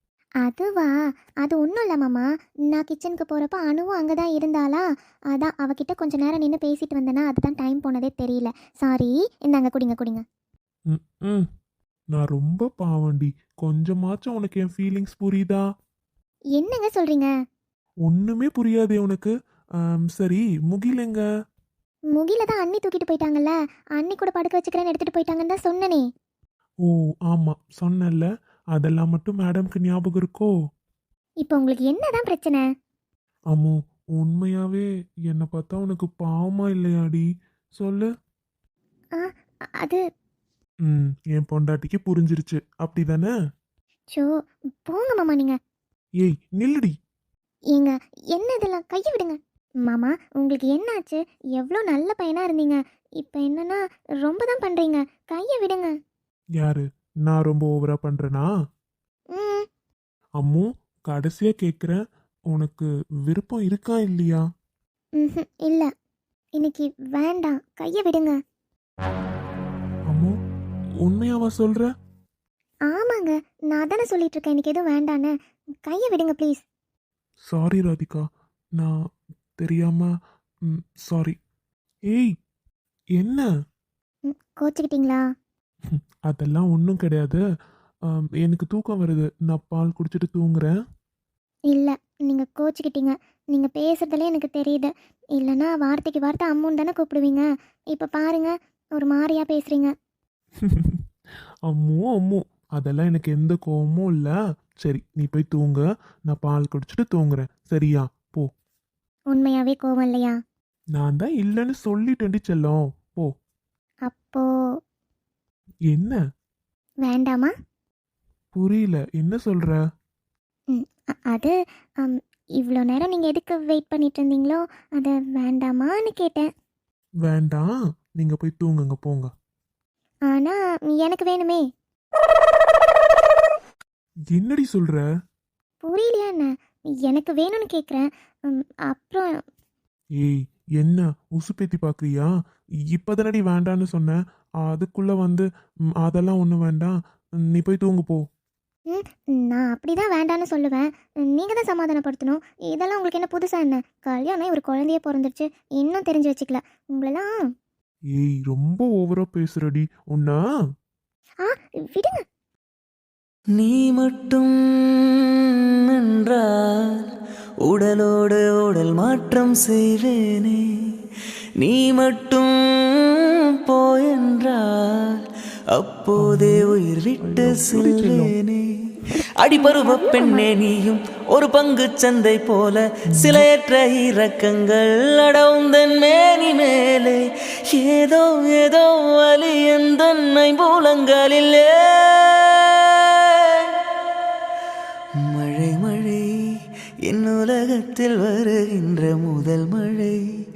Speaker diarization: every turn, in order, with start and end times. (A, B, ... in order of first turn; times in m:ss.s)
0:00.4-0:10.2 A
0:10.9-0:11.5 B
0:12.1-0:15.6 B
0:16.6-0:17.3 A
0:18.1-0:19.3 B
0:20.0-0:21.2 B
0:22.1-0:26.0 A
0:26.8-0:30.5 B
0:31.4-0:32.6 A
0:33.5-0:37.3 B
0:37.8-0:38.1 B
0:39.2-0:40.0 A
0:40.8-0:43.3 B
0:44.8-0:45.6 A
0:46.2-0:46.9 B
0:47.7-0:55.9 A
0:56.6-0:58.5 B
0:59.3-0:59.7 A
1:00.4-1:02.0 B
1:02.5-1:04.4 B
1:05.2-1:05.9 A
1:06.6-1:08.4 A
1:11.0-1:11.9 B
1:12.9-1:15.3 A
1:15.8-1:16.6 A
1:17.5-1:18.2 B
1:19.6-1:20.1 B
1:20.7-1:21.4 B
1:23.2-1:23.5 B
1:24.3-1:25.2 A
1:25.9-1:27.4 B
1:28.1-1:30.7 B
1:31.7-1:39.9 A
1:40.6-1:41.0 B
1:41.7-1:48.5 B
1:49.3-1:50.4 A
1:50.9-1:53.3 B
1:54.1-1:54.4 A
1:55.9-1:56.2 B
1:57.0-1:57.5 A
1:58.6-1:59.8 B
2:00.7-2:06.5 A
2:07.2-2:09.3 B
2:10.3-2:11.6 A
2:14.3-2:15.0 B
2:15.8-2:16.5 A
2:17.1-2:19.3 A
2:20.2-2:22.3 B
2:22.9-2:25.5 B
2:26.0-2:27.0 B
2:27.5-2:28.2 B
2:28.9-2:37.3 A
2:38.1-2:40.4 B
2:41.4-2:42.2 A
2:43.6-2:44.5 C
2:46.0-2:47.1 C
2:47.6-2:50.6 C
2:51.6-2:55.2 C
2:55.8-2:58.6 C
2:56.2-2:58.3 B
2:59.4-3:07.2 C
2:59.5-3:00.5 A
3:03.1-3:03.4 B
3:07.7-3:13.6 C
3:15.2-3:16.2 C
3:17.1-3:20.2 C